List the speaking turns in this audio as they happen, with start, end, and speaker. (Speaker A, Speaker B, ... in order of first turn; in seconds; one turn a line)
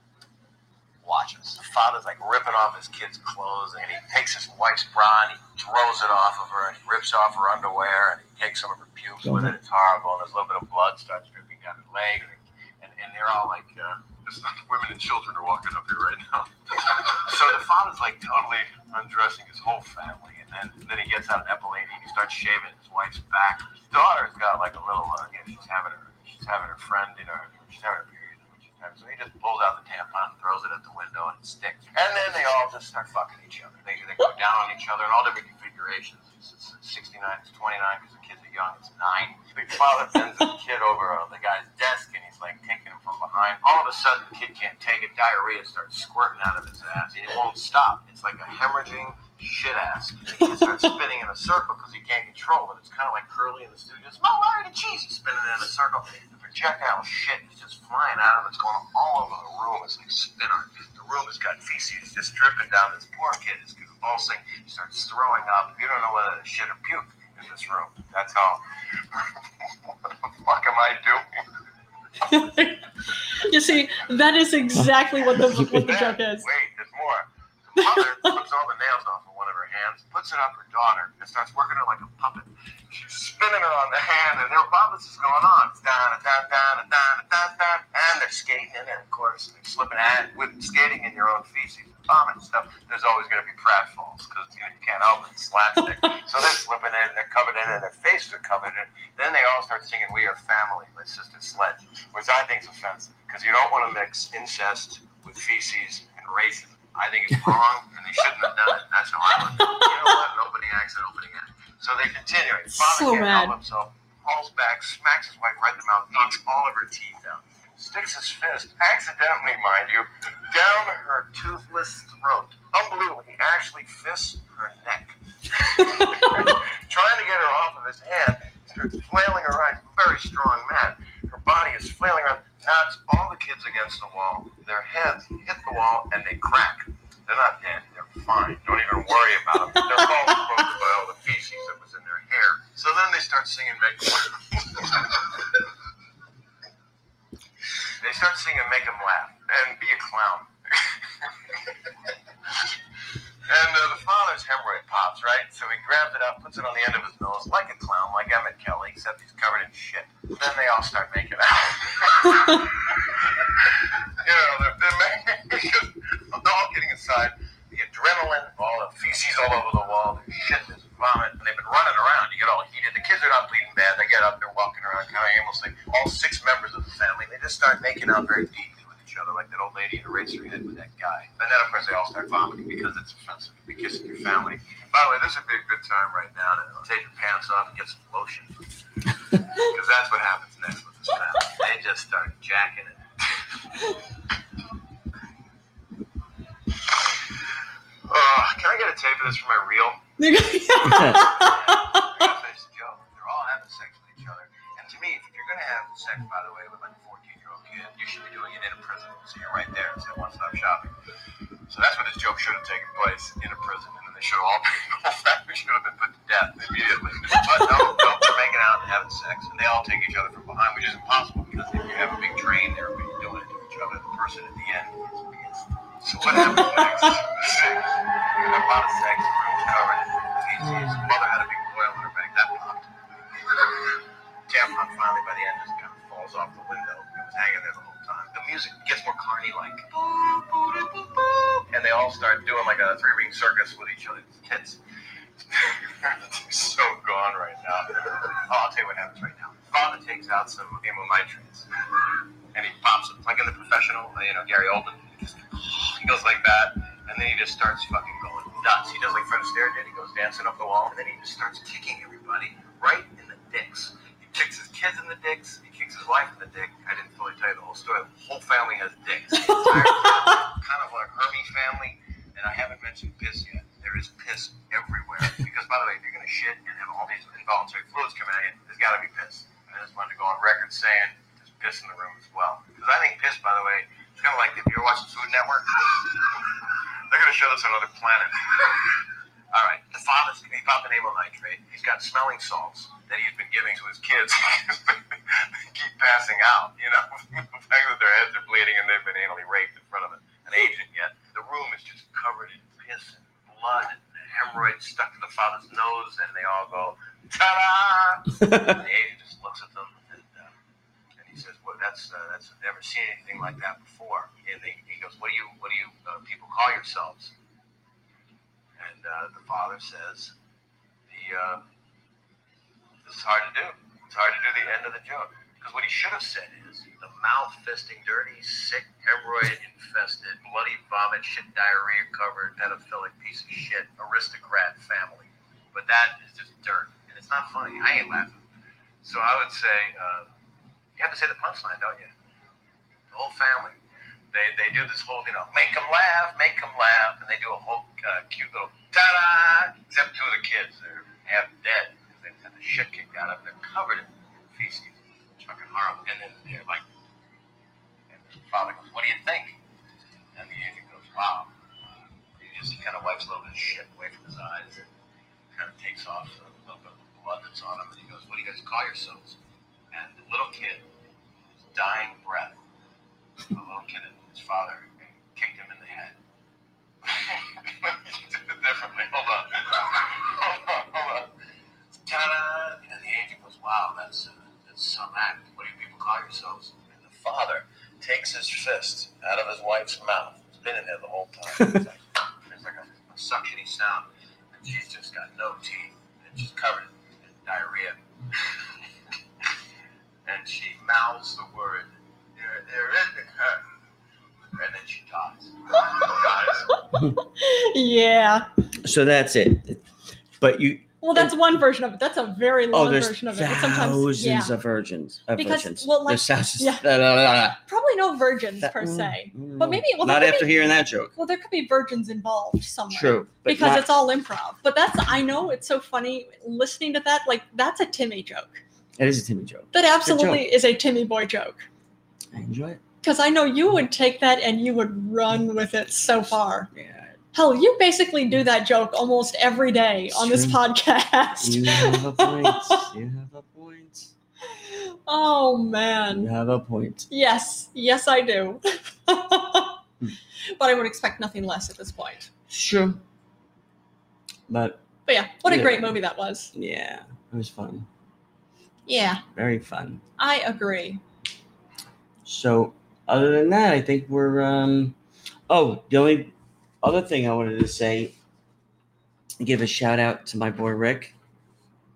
Speaker A: 1.0-71.2
Speaker B: 9.2-9.5
Speaker C: 72.2-76.5
Speaker B: 75.5-75.8
Speaker A: 75.7-145.4
Speaker C: 77.8-78.3
Speaker C: 109.5-110.1
Speaker C: 112.7-113.5
Speaker A: 148.0-151.7
Speaker A: 153.5-188.5
Speaker A: 189.3-193.4
Speaker A: 198.1-200.0
Speaker C: 200.2-202.1
Speaker B: 200.8-201.3
Speaker A: 201.1-210.9
Speaker A: 211.7-232.9
Speaker A: 233.5-244.8
Speaker A: 245.4-251.7
Speaker A: 252.5-286.5
Speaker C: 269.6-270.3
Speaker A: 287.1-289.0
Speaker A: 289.5-310.5
Speaker B: 308.4-308.7
Speaker A: 311.2-317.3
Speaker A: 318.8-320.3
Speaker A: 321.1-321.6
Speaker A: 323.0-338.4
Speaker A: 339.0-340.3
Speaker A: 341.0-342.1
Speaker A: 343.1-343.8
Speaker A: 344.3-356.8
Speaker A: 358.1-359.6
Speaker A: 360.4-361.5
Speaker A: 362.4-364.9
Speaker A: 365.5-369.4
Speaker A: 369.9-370.9
Speaker A: 371.7-372.6
Speaker A: 373.5-376.1
Speaker A: 377.1-381.3
Speaker A: 382.1-398.6
Speaker A: 400.2-403.6
Speaker A: 404.5-406.7
Speaker C: 406.7-408.5
Speaker B: 408.8-409.8
Speaker B: 410.4-411.4
Speaker C: 411.0-414.5
Speaker B: 412.7-417.6
Speaker C: 415.4-416.8
Speaker C: 417.6-428.6
Speaker B: 418.6-421.1
Speaker B: 422.9-423.9
Speaker B: 429.0-430.4
Speaker C: 429.7-431.7
Speaker B: 432.3-432.8
Speaker C: 433.0-436.7
Speaker B: 436.7-437.1
Speaker C: 437.3-442.8
Speaker B: 440.1-440.6
Speaker B: 441.4-444.1
Speaker C: 444.5-446.3
Speaker B: 446.1-447.1
Speaker C: 447.1-449.8
Speaker C: 450.5-452.3
Speaker B: 452.5-453.0
Speaker B: 454.5-454.8
Speaker C: 455.1-456.5
Speaker B: 455.4-455.9
Speaker B: 456.5-457.9
Speaker C: 458.9-459.2
Speaker B: 459.3-460.0
Speaker C: 460.2-461.0
Speaker B: 462.2-464.9
Speaker B: 465.5-468.1
Speaker B: 469.4-471.1